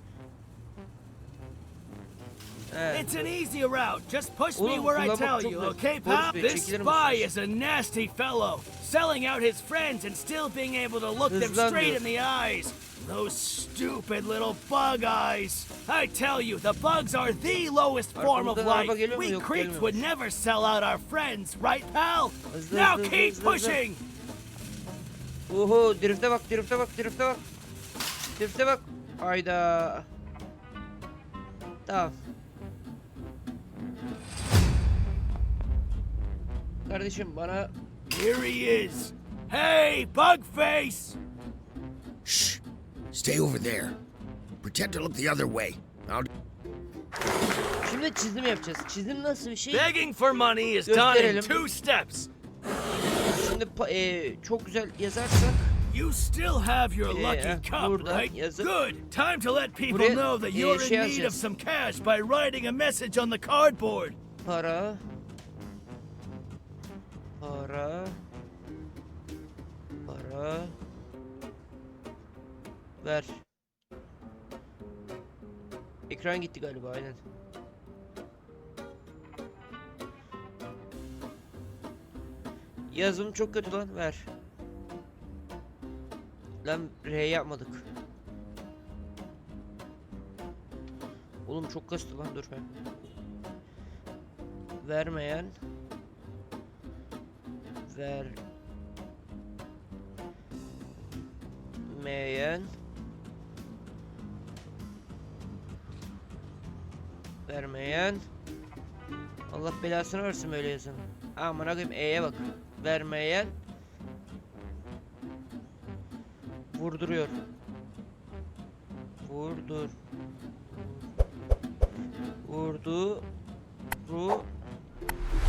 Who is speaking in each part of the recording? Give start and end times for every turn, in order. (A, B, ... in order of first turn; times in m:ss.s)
0:02.7-0:03.3 A
0:02.9-0:24.0 B
0:04.6-0:07.3 A
0:11.3-0:12.0 A
0:18.2-0:20.0 A
0:22.5-0:23.8 A
0:25.5-0:27.4 A
0:28.4-0:30.1 A
0:31.9-0:32.1 A
0:36.8-0:37.7 A
0:38.1-0:41.2 B
0:42.2-0:42.6 C
0:43.1-0:43.9 C
0:44.6-0:46.3 C
0:47.8-0:49.9 A
0:49.7-0:52.3 B
0:50.8-0:51.6 A
0:53.3-0:55.7 A
0:55.9-1:04.2 B
0:57.1-0:58.7 A
0:59.9-1:01.4 A
1:04.4-1:05.0 A
1:07.4-1:08.2 A
1:10.0-1:10.7 A
1:13.0-1:13.4 A
1:16.1-1:17.2 A
1:22.9-1:24.3 A
1:26.6-1:27.9 A
1:31.4-1:32.6 A
1:34.8-1:35.5 A
1:37.9-1:38.4 A
1:41.8-1:42.7 A
1:47.5-1:48.2 A
1:49.5-1:53.5 A
1:56.7-1:57.3 A
1:59.2-1:59.9 A
2:00.6-2:01.0 A
2:02.4-2:03.2 A
2:04.0-2:04.5 A